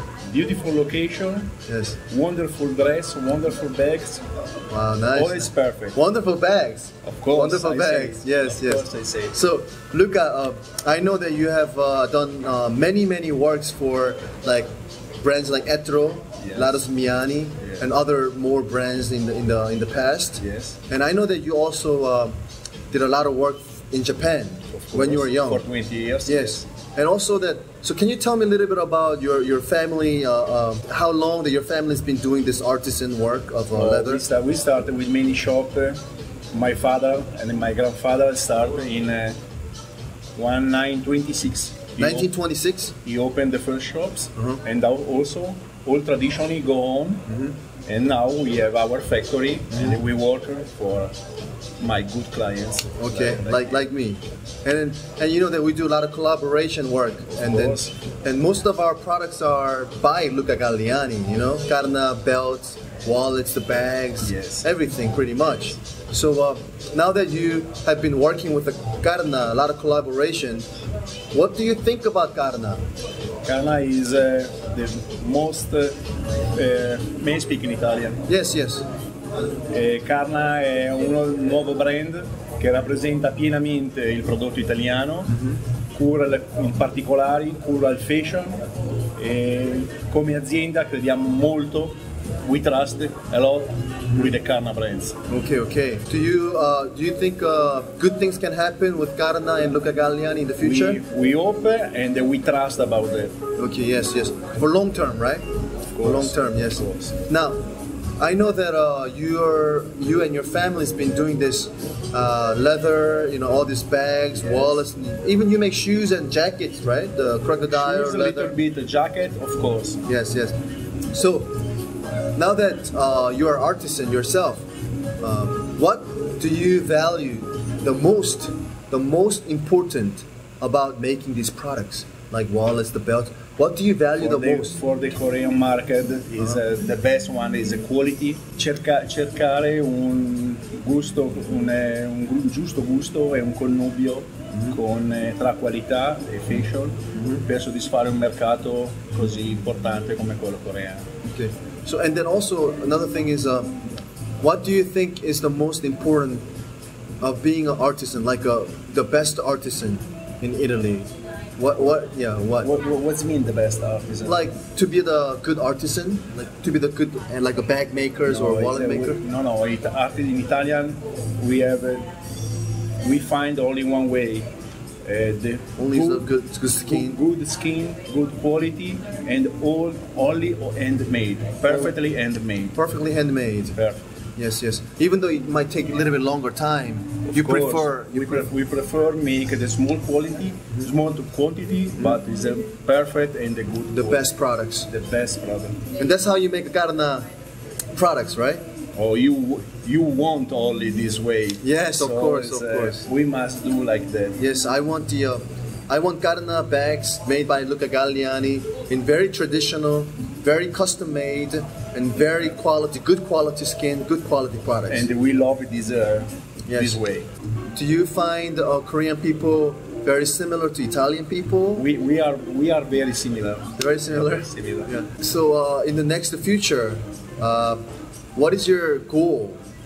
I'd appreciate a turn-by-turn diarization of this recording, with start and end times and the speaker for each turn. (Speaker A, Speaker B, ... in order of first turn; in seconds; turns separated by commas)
Speaker A: 0.3-1.5, Speaker B: 1.7-2.0, Speaker A: 2.1-4.2, Speaker B: 4.7-14.7, Speaker A: 5.1-6.0, Speaker A: 7.0-9.3, Speaker B: 15.2-22.3, Speaker A: 16.4-16.8, Speaker A: 17.6-17.9, Speaker A: 20.4-20.8, Speaker B: 22.9-25.6, Speaker A: 24.7-26.6, Speaker B: 26.2-34.2, Speaker A: 33.7-36.0, Speaker A: 36.5-39.4, Speaker A: 40.4-42.3, Speaker B: 42.0-42.9, Speaker A: 43.0-47.3, Speaker B: 47.3-47.5, Speaker A: 47.9-51.1, Speaker A: 51.8-53.8, Speaker B: 53.0-70.7, Speaker A: 57.4-57.9, Speaker A: 64.2-64.7, Speaker B: 71.3-72.8, Speaker A: 73.4-76.0, Speaker A: 76.5-78.2, Speaker B: 78.3-78.8, Speaker A: 79.7-85.4, Speaker A: 85.9-88.6, Speaker A: 89.2-95.2, Speaker B: 95.3-101.0, Speaker A: 100.6-103.3, Speaker B: 103.6-105.4, Speaker A: 105.9-107.2, Speaker B: 106.0-107.6, Speaker B: 108.2-118.5, Speaker A: 114.5-114.8, Speaker A: 117.7-120.0, Speaker B: 120.0-120.5, Speaker B: 121.1-121.6, Speaker B: 122.3-124.7, Speaker B: 125.2-134.8, Speaker A: 134.2-151.1, Speaker B: 147.1-147.4, Speaker B: 151.2-153.7, Speaker B: 154.4-156.4, Speaker B: 157.2-162.7, Speaker A: 162.6-164.4, Speaker B: 164.2-169.2, Speaker A: 168.3-172.1, Speaker A: 173.0-174.5, Speaker A: 175.0-176.3, Speaker B: 175.8-177.2, Speaker A: 176.9-182.8, Speaker B: 181.7-181.9, Speaker B: 182.7-183.8, Speaker A: 183.7-184.0, Speaker B: 184.4-188.5, Speaker A: 187.3-194.3, Speaker B: 193.9-194.9, Speaker A: 194.9-195.8, Speaker B: 196.0-197.2, Speaker B: 197.9-198.6, Speaker A: 199.0-204.4, Speaker B: 201.6-203.1, Speaker B: 204.4-215.1, Speaker A: 214.9-217.3, Speaker B: 216.7-217.0, Speaker B: 217.7-221.8, Speaker A: 221.8-224.9, Speaker B: 223.8-227.8, Speaker B: 228.3-229.6